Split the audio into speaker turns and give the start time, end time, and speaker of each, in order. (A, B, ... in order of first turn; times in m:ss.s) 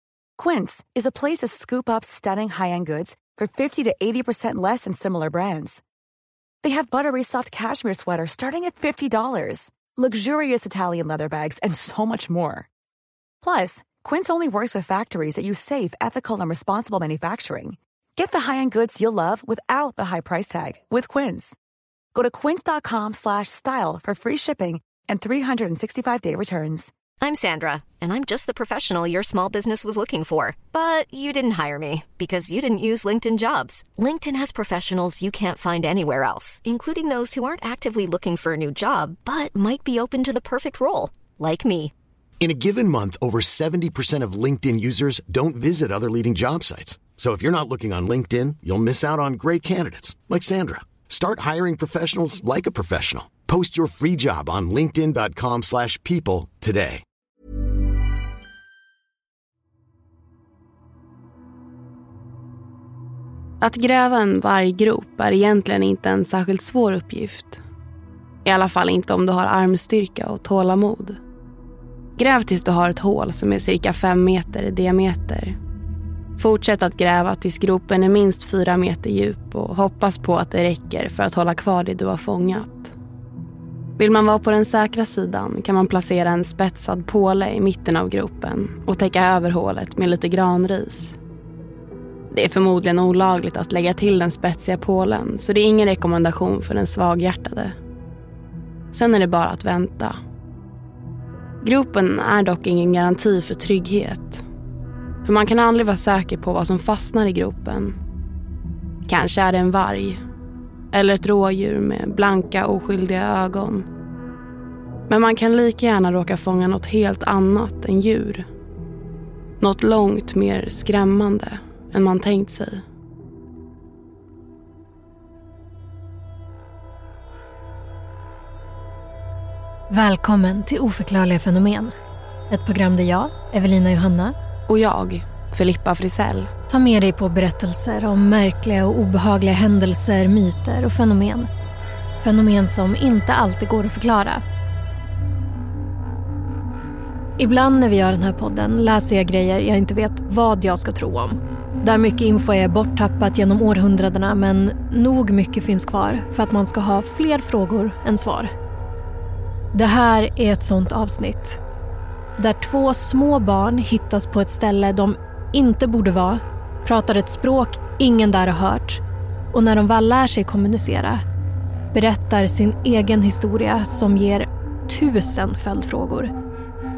0:00.4-0:05.8 A
0:06.6-0:12.7 A
0:13.4-0:21.6 A
0:22.1-0:26.9 A
0:27.2-0:41.9 B
0:42.4-0:57.0 C
1:03.6-1:07.6 D
1:08.4-1:11.2 D
1:12.2-1:15.6 D
1:16.4-1:22.9 D
1:24.0-1:31.2 D
1:32.3-1:37.8 D
1:38.9-1:40.2 D
1:41.6-1:44.4 D
1:45.2-1:47.9 D
1:49.1-1:50.2 D
1:50.9-1:53.8 D
1:55.1-1:58.5 D
1:59.6-2:02.8 D
2:09.9-2:11.9 E
2:12.5-2:14.3 E
2:14.7-2:16.5 D
2:16.7-2:21.5 E
2:22.2-2:24.4 E
2:27.4-2:38.5 E
2:39.7-2:41.6 E
2:42.4-2:51.2 E
2:51.9-2:56.3 E